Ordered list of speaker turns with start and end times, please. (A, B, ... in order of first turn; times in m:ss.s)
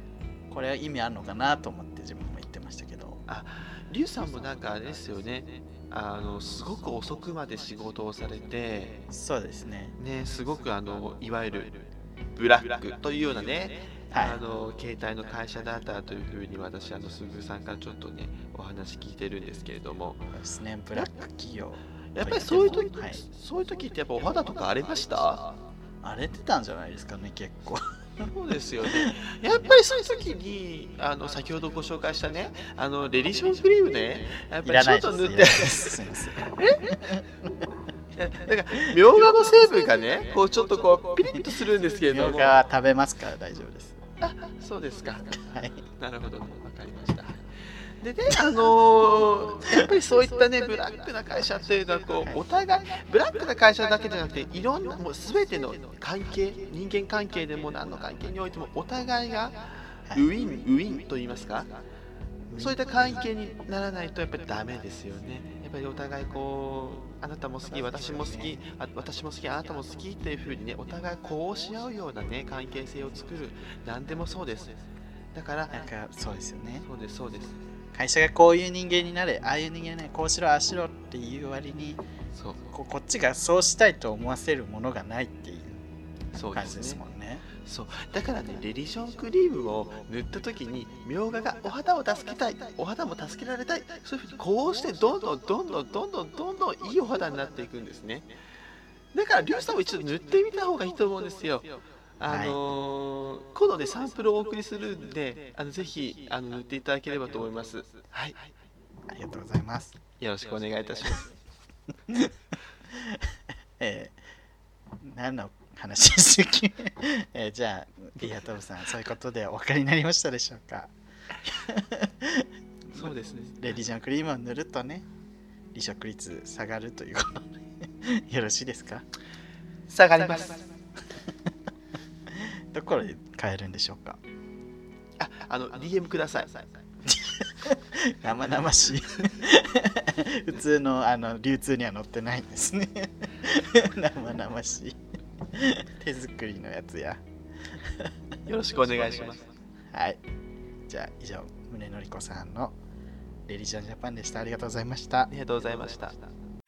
0:00.5-0:03.2 A
0:03.3-0:09.1 B
0:09.1-0:10.0 A
0:10.0-0:20.2 B
0:14.1-0:14.4 A
0:20.3-0:23.2 A
0:22.1-0:25.5 B
0:26.0-0:28.3 A
0:28.2-0:37.0 B
0:28.8-0:29.1 A
0:34.6-0:37.6 A
0:38.1-0:42.6 B
0:38.8-0:39.4 A
0:42.1-0:44.0 A
0:44.2-1:01.7 B
0:45.5-0:45.8 A
1:02.5-1:03.2 A
1:02.5-1:15.8 B
1:07.7-1:08.6 A
1:15.7-1:16.8 A
1:16.8-1:17.6 B
1:17.9-1:22.0 A
1:22.4-1:22.7 B
1:22.7-1:25.8 A
1:26.3-1:27.0 B
1:26.5-1:27.4 A
1:27.6-1:38.3 B
1:39.1-1:48.5 B
1:42.2-1:42.6 A
1:49.1-1:50.0 A
1:50.2-1:51.3 B
1:52.1-1:52.3 A
1:52.9-1:54.1 A
1:55.0-2:05.1 A
2:02.9-2:03.6 B
2:05.7-2:09.0 A
2:09.9-2:10.6 B
2:12.3-2:14.2 A
2:15.2-2:16.7 B
2:17.0-2:25.0 A
2:25.5-2:28.1 A
2:28.4-2:29.5 B
2:29.9-2:30.2 A
2:30.9-2:32.8 A
2:33.5-2:35.3 A
2:35.3-2:36.3 B